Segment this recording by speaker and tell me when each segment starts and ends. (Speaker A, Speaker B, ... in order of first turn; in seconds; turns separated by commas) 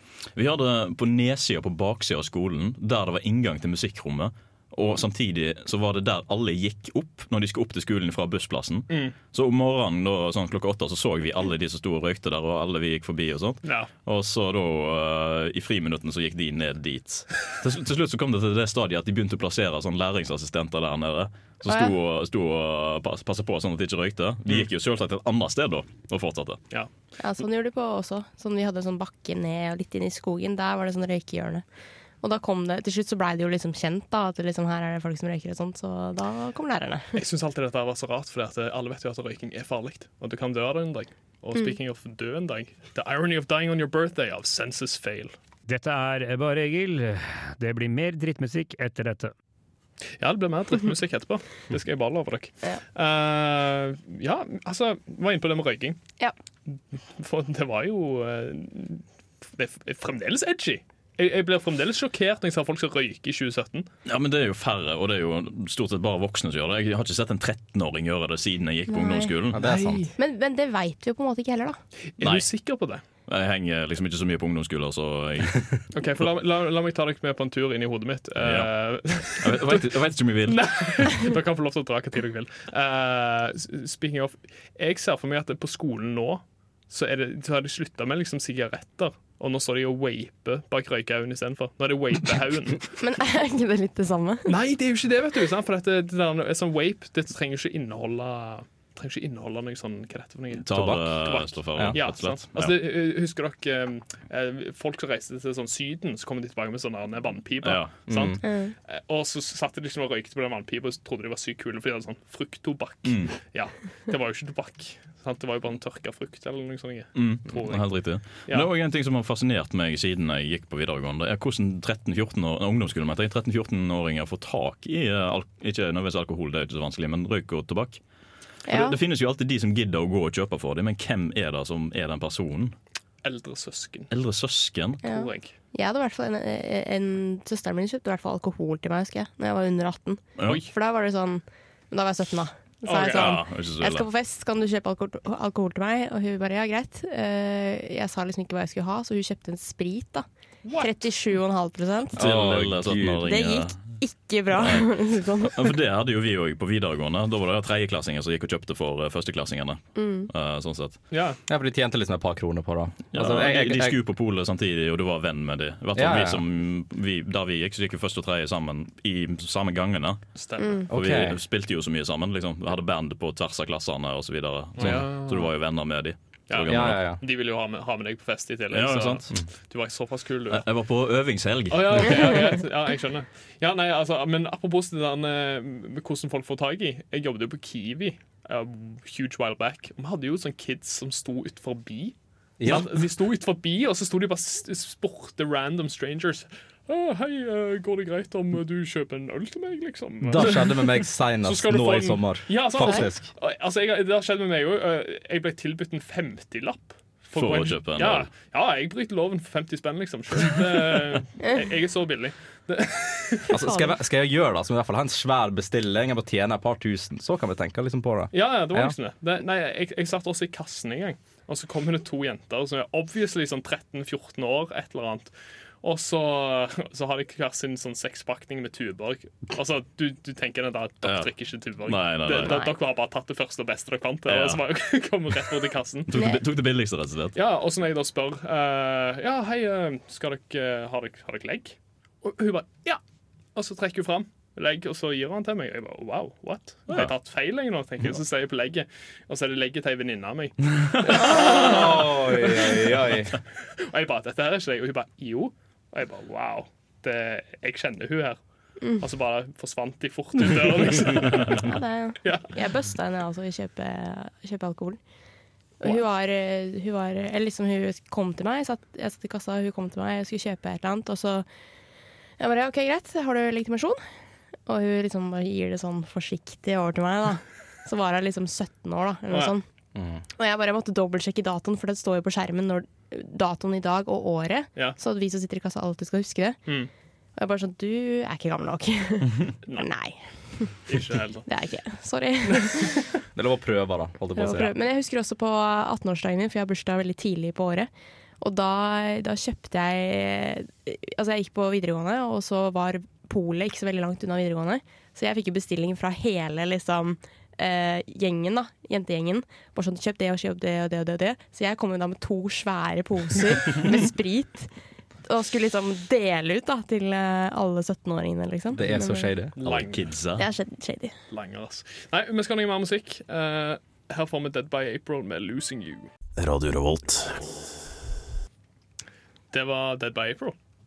Speaker A: 0.3-26.6, Speaker B: 8.9-9.2, Speaker B: 13.6-13.9, Speaker C: 21.7-21.9, Speaker C: 27.2-31.6, Speaker C: 32.2-37.1, Speaker B: 37.1-45.3, Speaker D: 45.7-49.3, Speaker B: 50.2-56.0, Speaker B: 56.7-63.9, Speaker A: 64.0-69.6, Speaker C: 68.9-69.3, Speaker E: 69.5-70.1, Speaker B: 69.6-70.1, Speaker C: 70.2-71.8, Speaker B: 72.2-73.0, Speaker A: 72.2-72.5, Speaker A: 73.3-75.8, Speaker B: 75.9-92.9, Speaker A: 78.4-80.8, Speaker C: 93.0-94.5, Speaker B: 94.5-118.7, Speaker A: 100.6-102.8, Speaker A: 107.6-108.0, Speaker E: 108.1-108.4, Speaker C: 108.4-108.7, Speaker A: 113.0-113.4, Speaker A: 117.1-128.0, Speaker C: 128.7-129.0, Speaker A: 128.7-132.8, Speaker B: 133.2-134.1, Speaker A: 134.1-135.0, Speaker B: 135.0-135.6, Speaker C: 135.0-150.3, Speaker A: 140.4-140.7, Speaker B: 142.8-143.4, Speaker A: 143.0-144.1, Speaker B: 150.6-150.9, Speaker C: 150.8-152.2, Speaker E: 152.2-153.3, Speaker A: 152.2-153.9, Speaker C: 153.2-155.8, Speaker A: 154.5-161.0, Speaker C: 160.0-160.3, Speaker B: 161.1-161.4, Speaker E: 161.5-164.0, Speaker A: 163.1-170.2, Speaker E: 165.9-166.4, Speaker B: 170.4-170.8, Speaker C: 170.6-170.9, Speaker E: 170.9-171.4, Speaker A: 170.9-177.0, Speaker B: 174.8-175.5, Speaker B: 176.5-180.7, Speaker E: 176.7-177.2, Speaker A: 178.7-179.3, Speaker A: 180.5-182.5, Speaker B: 181.7-213.6, Speaker E: 192.6-193.0, Speaker E: 200.2-203.3, Speaker A: 207.4-208.3, Speaker E: 213.5-218.9, Speaker C: 213.6-213.9, Speaker B: 218.3-225.3, Speaker B: 225.8-236.1, Speaker A: 231.0-232.6, Speaker C: 232.4-232.7, Speaker A: 234.3-234.6, Speaker A: 236.1-237.4, Speaker C: 236.1-236.4, Speaker B: 237.3-243.0, Speaker B: 243.6-258.4, Speaker E: 251.1-253.3, Speaker B: 259.0-262.5, Speaker C: 261.6-265.0, Speaker C: 265.8-271.5, Speaker C: 272.4-274.0, Speaker C: 274.7-279.6, Speaker E: 279.9-280.2, Speaker C: 280.4-286.6, Speaker C: 287.4-290.8, Speaker B: 290.9-291.5, Speaker C: 291.5-293.0, Speaker E: 293.4-294.8, Speaker C: 294.4-297.9, Speaker C: 298.4-314.7, Speaker C: 315.2-319.4, Speaker E: 318.7-319.6, Speaker B: 319.6-320.1, Speaker A: 319.6-320.5, Speaker C: 320.4-321.1, Speaker B: 321.3-326.1, Speaker A: 326.4-327.5, Speaker B: 329.5-330.6